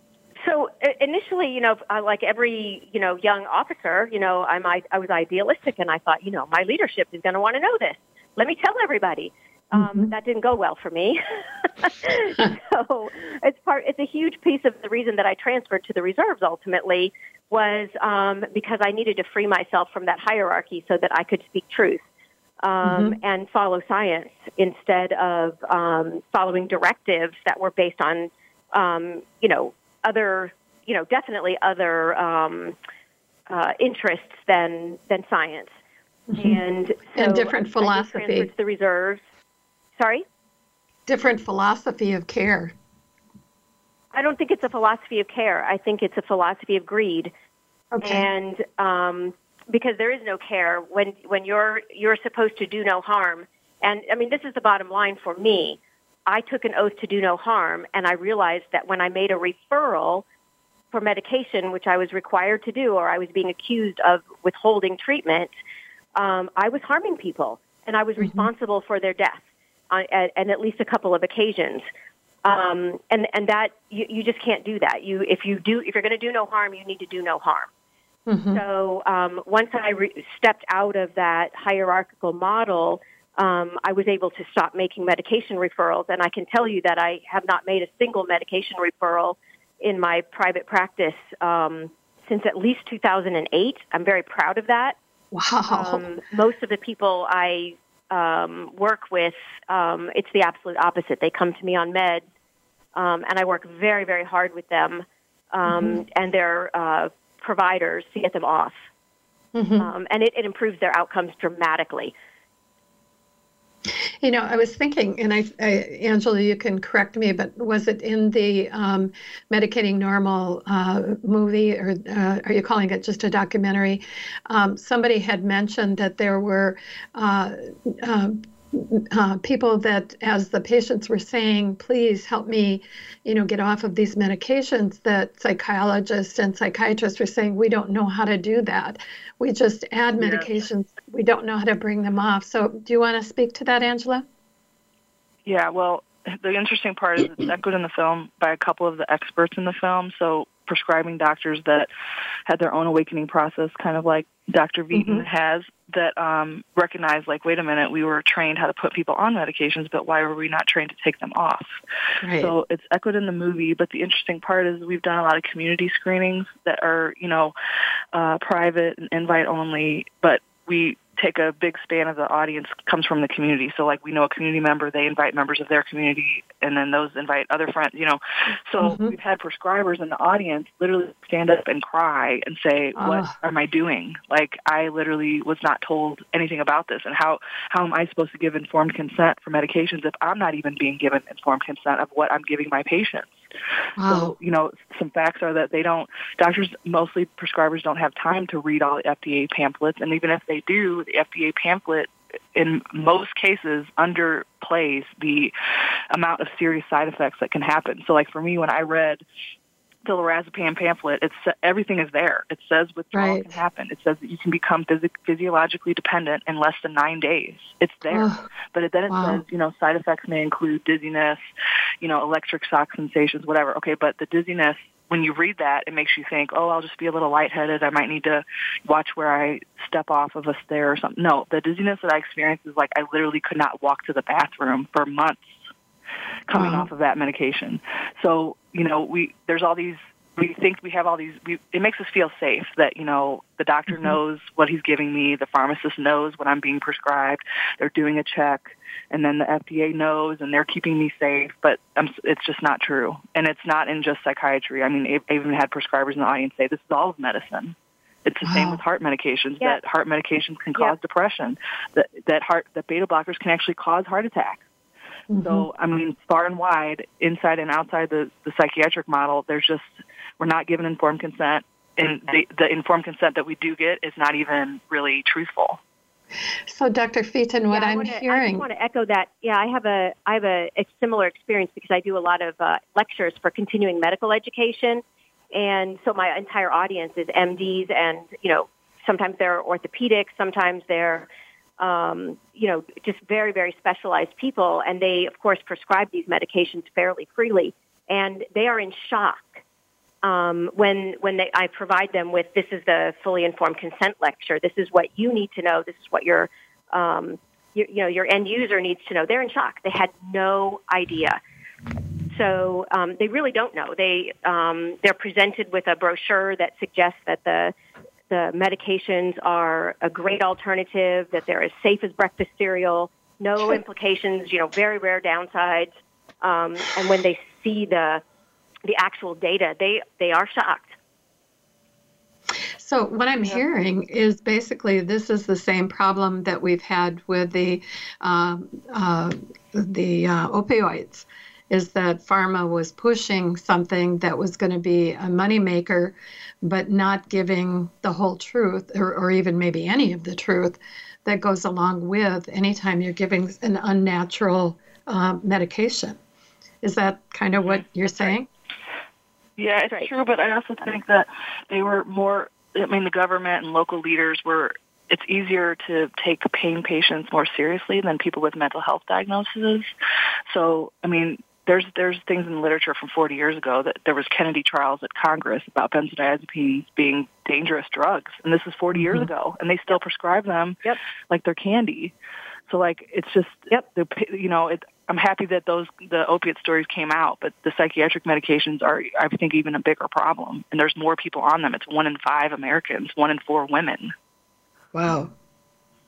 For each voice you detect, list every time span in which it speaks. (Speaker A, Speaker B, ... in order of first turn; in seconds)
Speaker A: 0.4-22.0, 22.6-32.8, 33.5-35.7, 36.4-39.2, 40.0-40.2, 44.1-47.3, 48.0-60.2, 60.9-65.5, 66.2-71.8, 72.5-77.7, 78.5-95.0, 95.7-102.2, 103.0-108.7, 109.8-112.1, 277.7-291.3, 291.8-299.5, 300.2-311.4, 312.3-317.7, 318.3-328.2, 328.9-331.0
Speaker B: 9.8-10.1, 22.8-23.1, 36.3-36.6, 37.1-38.5, 41.1-42.7, 47.9-48.3, 68.2-68.5, 78.3-78.6, 95.3-96.0, 105.7-106.0, 109.5-109.9, 114.2-144.2, 154.9-155.2, 162.2-162.5, 178.8-179.2, 183.0-183.3, 194.0-194.3, 213.1-213.5, 218.1-218.4, 219.1-219.4, 236.5-236.9, 243.9-244.2, 258.4-258.8, 265.3-265.7, 276.7-278.7, 332.8-356.2, 356.8-358.5, 378.9-379.3, 394.9-395.3
Speaker C: 140.2-140.5, 145.4-151.9, 152.5-161.8, 162.3-167.5, 168.1-193.5, 194.0-205.5, 206.1-209.2, 210.1-221.4, 222.0-235.7, 236.5-264.6, 265.4-269.9, 270.4-275.8, 359.6-369.9, 370.5-382.1, 382.7-394.1